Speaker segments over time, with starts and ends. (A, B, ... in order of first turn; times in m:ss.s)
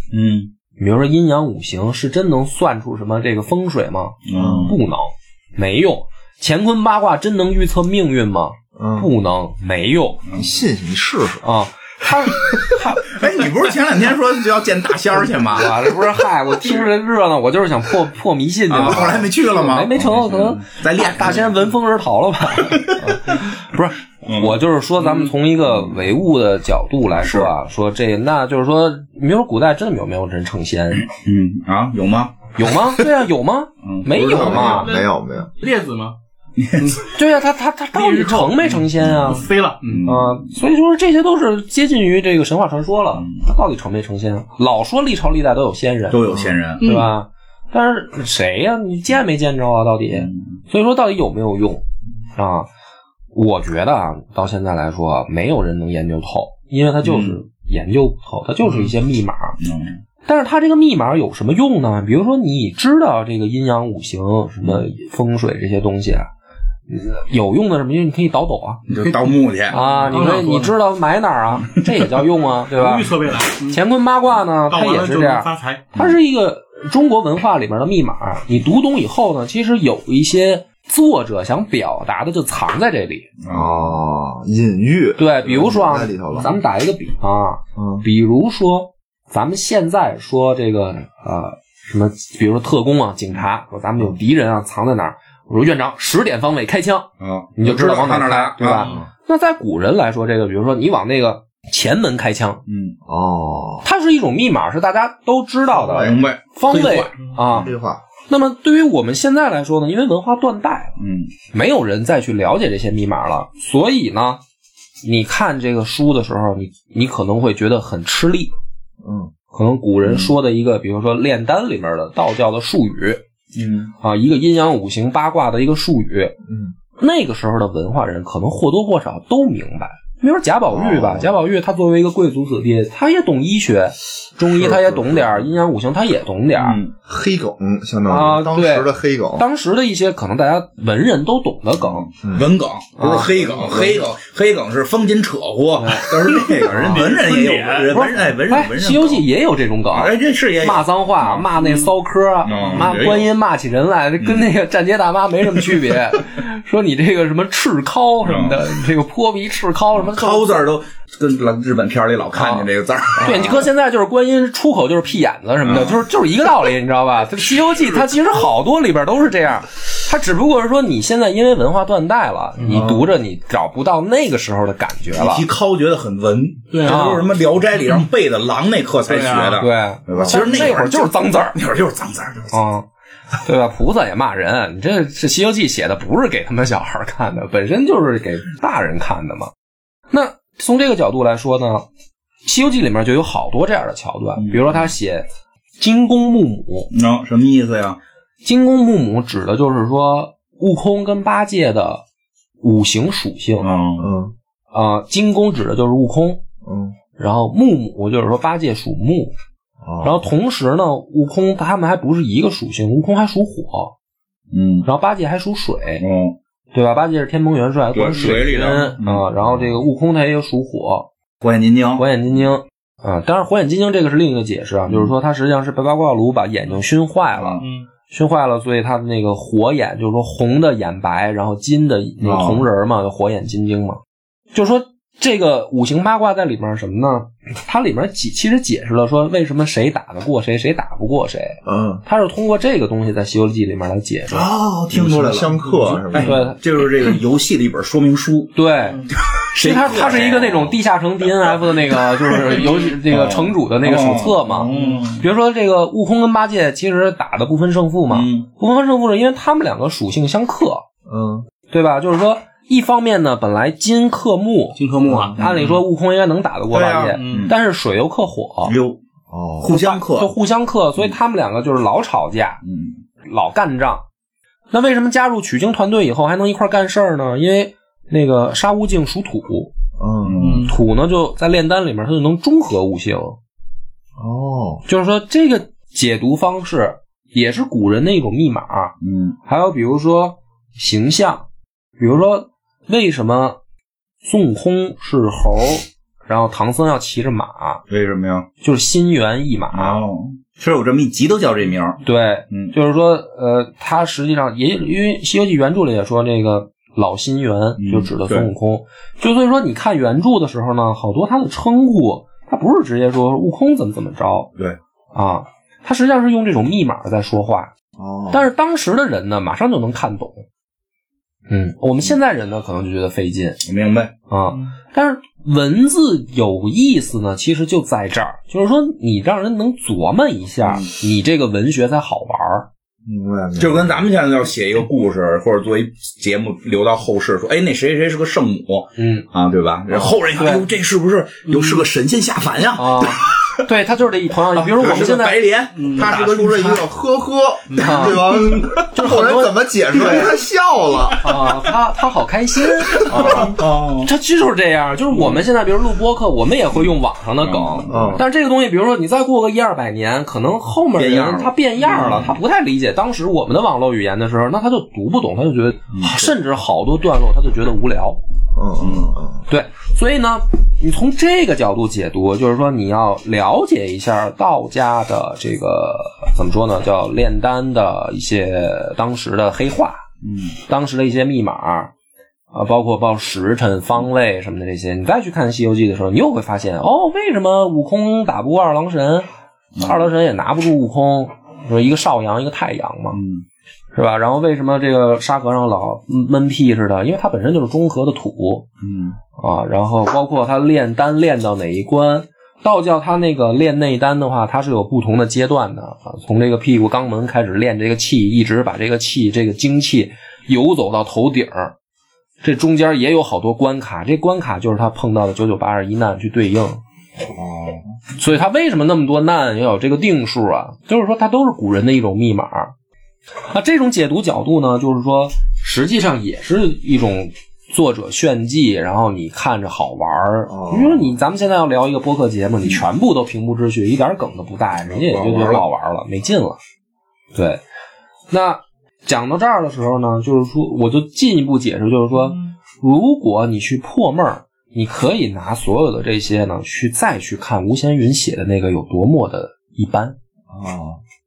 0:00.1-0:00.5 A
0:00.8-0:10.2 B
0:04.2-0:04.8 A
0:04.4-0:04.7 C
0:08.8-0:09.1 C
0:10.2-0:10.5 A
0:10.3-0:11.4 C
0:11.4-0:13.2 B
0:13.0-0:15.9 A
0:15.4-0:31.1 B
0:18.7-0:21.7 A
0:22.6-0:23.5 A
0:24.2-0:26.0 A
0:27.2-0:27.5 A
0:30.9-0:32.4 A
0:32.6-0:35.0 B
0:33.8-0:34.9 A
0:34.1-0:35.5 C
0:34.3-0:35.1 D
0:35.6-0:36.2 D
0:36.6-0:36.9 A
0:36.7-0:37.1 D
0:37.1-0:39.4 B
0:37.9-0:40.0 D
0:39.8-0:40.5 A
0:40.0-0:51.8 B
0:46.1-0:46.8 A
0:46.8-0:47.1 D
0:50.1-0:50.4 A
0:52.3-0:52.7 B
0:53.3-0:59.6 B
0:57.0-0:57.4 A
0:59.6-1:00.0 A
1:00.2-1:06.3 B
1:06.9-1:08.8 B
1:08.9-1:09.8 A
1:09.7-1:23.3 B
1:09.7-1:10.7 D
1:12.7-1:13.8 D
1:14.7-1:15.8 D
1:23.4-1:24.0 A
1:23.5-1:26.6 C
1:25.2-1:42.6 B
1:27.8-1:28.0 C
1:37.2-1:39.0 A
1:38.8-1:39.1 C
1:42.6-1:43.0 A
1:43.0-1:43.8 C
1:43.8-1:47.7 B
1:45.7-1:46.1 C
1:45.9-1:47.7 A
1:47.5-1:48.0 C
1:48.3-1:51.0 B
1:51.0-1:51.3 A
1:51.5-1:54.4 B
1:55.0-1:58.5 B
1:59.0-1:59.3 C
1:59.5-2:03.2 B
2:00.0-2:00.3 A
2:03.5-2:03.9 A
2:04.0-2:06.3 B
2:06.5-2:06.7 C
2:07.0-2:16.8 B
2:10.7-2:11.3 C
2:14.6-2:15.3 C
2:16.6-2:16.9 A
2:17.0-2:19.4 C
2:18.1-2:22.1 B
2:21.8-2:29.2 A
2:22.2-2:22.5 C
2:23.0-2:23.6 B
2:23.5-2:24.0 C
2:25.8-2:27.1 B
2:26.2-2:28.1 D
2:27.9-2:40.7 B
2:29.9-2:31.5 A
2:32.4-2:33.3 A
2:34.2-2:34.4 A
2:38.2-2:38.6 A
2:39.9-2:43.6 A
2:42.3-2:42.7 B
2:43.2-2:43.6 C
2:43.2-2:55.4 B
2:45.6-2:46.0 A
2:52.6-2:52.9 D
2:55.1-3:02.6 A
2:56.7-2:57.2 D
2:56.8-2:57.3 B
2:59.0-2:59.6 D
2:59.6-3:01.6 B
3:00.1-3:00.6 C
3:02.5-3:02.9 B
3:03.4-3:09.5 B
3:10.1-3:11.8 B
3:12.4-3:15.2 B
3:14.4-3:14.9 A
3:15.8-3:16.9 B
3:16.9-3:18.0 A
3:18.4-3:22.0 B
3:22.6-3:23.7 B
3:23.6-3:24.1 A
3:24.0-3:24.3 C
3:24.7-3:26.4 B
3:26.6-3:27.0 C
3:27.2-3:29.3 B
3:29.8-3:30.2 C
3:30.0-3:33.9 B
3:34.5-3:34.9 A
3:34.8-3:36.0 B
3:36.0-3:36.4 A
3:36.7-3:41.1 B
3:37.9-3:39.3 A
3:41.4-3:42.1 A
3:42.0-3:54.0 B
3:47.3-3:47.6 A
3:47.6-3:47.8 D
3:52.2-3:52.6 A
3:54.5-4:04.5 B
4:01.6-4:02.0 C
4:04.3-4:08.5 A
4:04.8-4:06.4 C
4:06.1-4:06.6 B
4:08.5-4:20.8 B
4:09.3-4:10.8 A
4:11.4-4:15.2 A
4:14.6-4:15.1 D
4:18.1-4:18.5 A
4:21.1-4:21.4 C
4:21.7-4:24.8 B
4:24.8-4:25.4 D
4:25.3-4:25.8 A
4:25.4-4:28.7 B
4:26.7-4:27.6 A
4:27.1-4:27.5 D
4:28.6-4:29.0 A
4:29.3-4:29.8 C
4:29.6-4:30.3 A
4:29.7-4:32.6 B
4:32.6-4:33.0 A
4:33.2-4:34.0 B
4:34.7-4:39.7 B
4:40.0-4:40.4 C
4:40.2-4:40.7 A
4:40.4-4:40.8 D
4:40.6-4:43.4 B
4:44.2-4:44.8 C
4:44.9-4:51.4 B
4:49.0-4:49.4 A
4:52.0-4:53.6 B
4:54.2-4:57.8 B
4:57.9-4:58.5 A
4:58.6-5:00.0 B
4:59.7-5:02.7 A
5:02.0-5:14.5 B
5:07.8-5:08.5 A
5:15.1-5:17.7 B
5:18.0-5:18.5 C
5:18.3-5:20.4 B
5:21.5-5:23.6 B
5:23.6-5:24.1 A
5:24.3-5:32.7 B
5:33.0-5:34.0 C
5:33.6-5:43.6 A
5:39.0-5:39.3 B
5:40.3-5:40.6 B
5:41.5-5:41.8 D
5:42.7-5:45.4 B
5:44.5-5:46.9 A
5:45.8-5:46.1 D
5:45.9-5:51.3 C
5:47.7-5:48.1 D
5:47.8-5:48.3 B
5:48.3-5:48.8 A
5:48.9-5:50.3 B
5:51.2-6:08.2 B
5:52.9-5:54.1 A
5:53.0-5:53.5 C
5:55.1-5:55.4 A
5:57.4-5:58.2 A
5:57.9-5:58.2 C
6:01.0-6:02.4 A
6:05.9-6:06.3 A
6:08.5-6:09.4 C
6:08.8-6:09.1 A
6:09.5-6:20.0 B
6:20.2-6:20.5 A
6:20.6-6:21.9 B
6:22.5-6:29.3 B
6:29.7-6:30.0 A
6:29.8-6:33.2 B
6:33.1-6:33.4 A
6:33.9-6:38.6 B
6:38.8-6:39.2 A
6:39.4-6:51.7 B
6:52.4-6:56.8 B
6:57.3-6:57.9 C
6:58.2-7:02.7 B
7:03.4-7:16.6 B
7:10.5-7:11.1 C
7:14.8-7:15.6 A
7:17.3-7:17.6 B
7:18.3-7:30.2 B
7:30.5-7:31.0 C